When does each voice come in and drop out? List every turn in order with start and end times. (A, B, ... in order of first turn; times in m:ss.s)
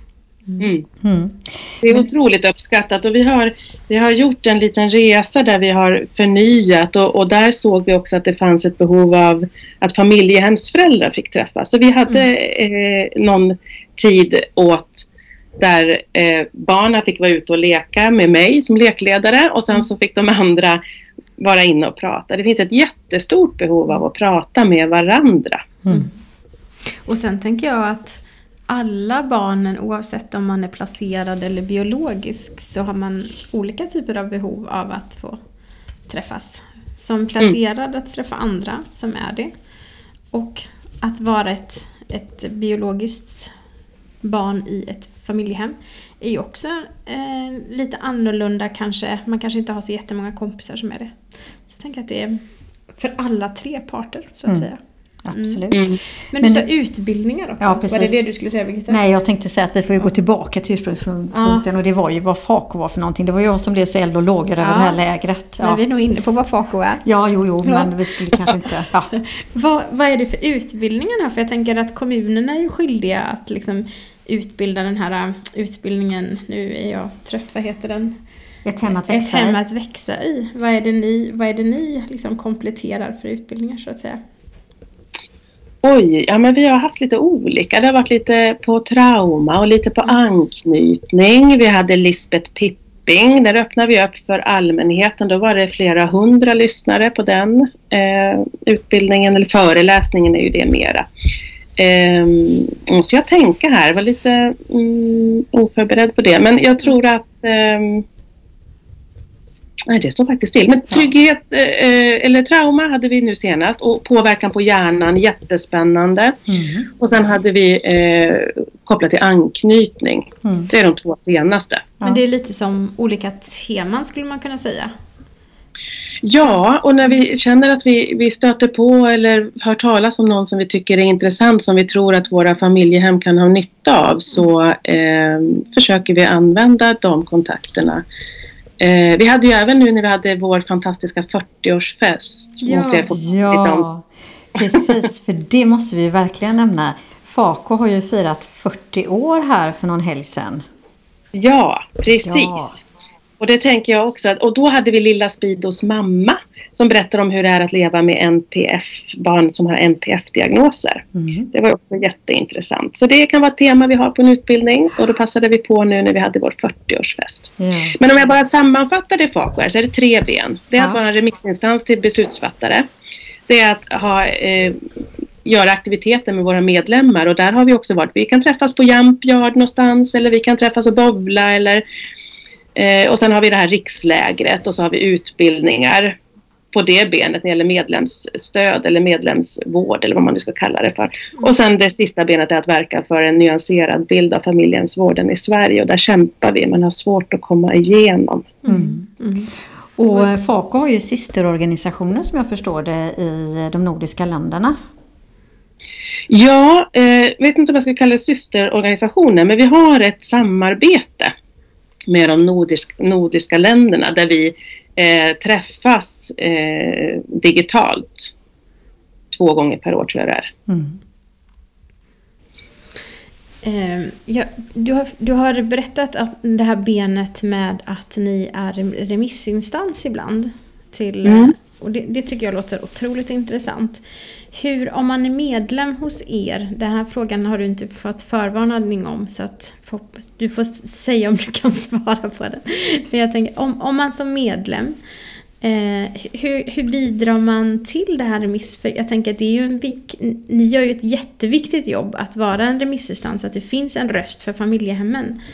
0:00.6-0:00.8 A
0:01.0-0:02.0 B
0:01.8-0:15.0 A
0:15.6-0:20.8 A
0:21.4-0:25.6 A
0:25.8-0:26.1 B
0:27.0-0:35.4 C
0:36.1-0:39.5 C
0:40.3-0:43.5 C
0:44.2-0:52.4 C
0:52.9-0:54.8 C
0:55.2-0:55.8 B
0:55.3-0:55.7 C
0:55.7-0:56.0 A
0:56.3-0:59.0 C
0:56.4-0:56.7 B
0:57.6-0:58.2 B
0:58.9-1:05.8 B
1:01.3-1:01.6 C
1:04.6-1:05.0 C
1:05.6-1:07.0 C
1:07.0-1:09.1 B
1:07.6-1:07.9 C
1:09.1-1:18.2 C
1:18.6-1:19.6 B
1:18.9-1:24.2 C
1:25.8-1:41.1 A
1:41.8-1:48.0 A
1:49.9-1:56.4 A
1:56.5-1:56.9 B
1:57.0-2:01.9 A
2:00.4-2:00.7 B
2:02.0-2:04.9 C
2:06.2-2:18.0 A
2:18.8-2:23.9 A
2:22.6-2:23.1 C
2:23.1-2:30.6 B
2:24.6-2:24.9 A
2:31.3-2:32.8 A
2:32.2-2:32.8 B
2:33.4-2:52.8 A
2:41.1-2:41.5 B
2:47.6-2:48.0 B
2:53.5-2:54.8 A
2:55.4-3:01.8 A
3:02.8-3:06.1 A
3:06.7-3:18.5 A
3:18.6-3:19.5 C
3:18.7-3:19.1 B
3:20.0-3:24.8 B
3:26.3-3:31.3 A
3:32.1-3:38.3 A
3:39.3-3:40.5 A
3:40.7-3:41.0 B
3:43.6-4:05.0 C
3:51.2-3:51.5 A
4:05.6-4:15.4 C